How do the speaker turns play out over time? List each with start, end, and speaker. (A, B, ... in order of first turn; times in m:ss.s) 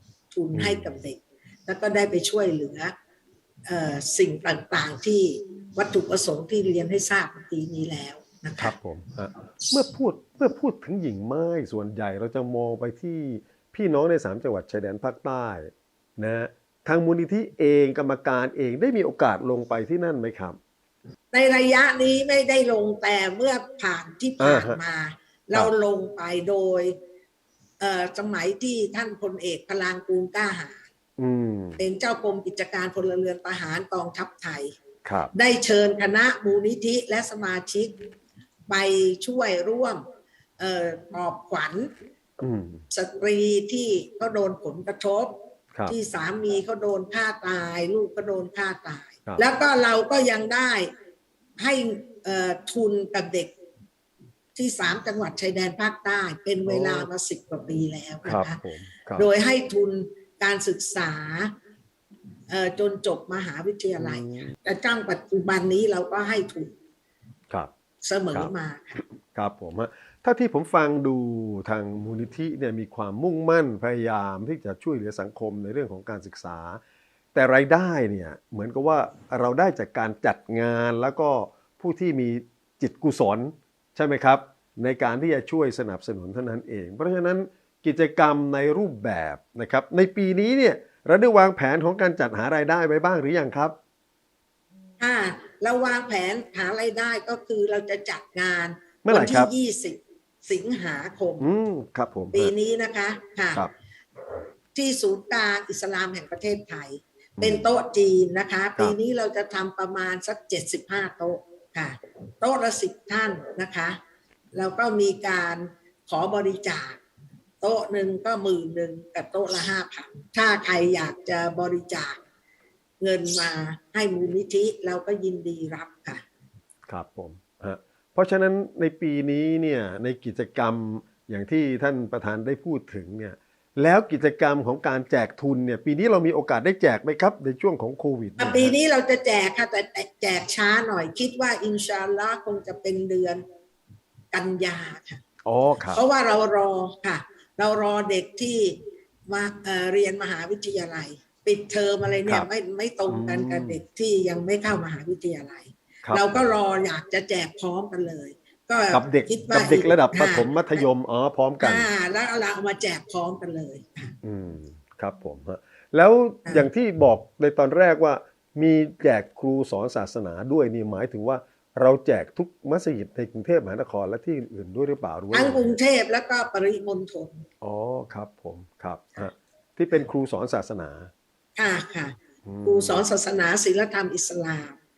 0:00.3-0:02.9 A
0:00.5-0:00.9 B
0:03.6-0:08.7 A
0:08.6-0:20.6 B
0:21.3-0:27.0 A
0:24.4-0:24.8 B
0:27.8-0:30.9 A
0:31.2-0:31.8 B
0:31.8-0:34.7 A
0:35.0-0:35.3 B
0:35.3-0:37.9 A
0:38.7-0:40.0 A
0:40.6-0:41.9 A
0:42.4-0:42.8 B
0:42.9-0:50.9 A
0:51.6-0:53.5 A
0:54.5-0:58.6 A
0:56.6-0:57.1 B
0:58.2-0:59.3 B
0:59.2-1:01.5 A
1:02.5-1:06.7 A
1:04.0-1:04.5 B
1:08.0-1:09.0 A
1:09.3-1:16.8 B
1:17.3-1:33.8 B
1:35.0-1:41.5 A
1:39.0-1:39.5 B
1:41.4-1:42.5 B
1:42.3-1:43.6 A
1:44.7-1:54.0 A
1:54.5-1:57.0 A
1:57.6-2:02.2 A
2:03.0-2:06.2 A
2:06.9-2:18.7 B
2:18.4-2:23.4 A
2:24.3-2:25.2 A
2:25.4-2:26.0 B
2:25.9-2:40.8 A
2:33.1-2:33.8 B
2:36.0-2:36.5 B
2:38.9-2:41.9 B
2:41.6-2:44.1 A
2:44.2-2:55.7 B
2:55.3-2:57.5 A
2:57.6-3:01.1 B
3:01.6-3:04.8 A
3:02.4-3:03.0 B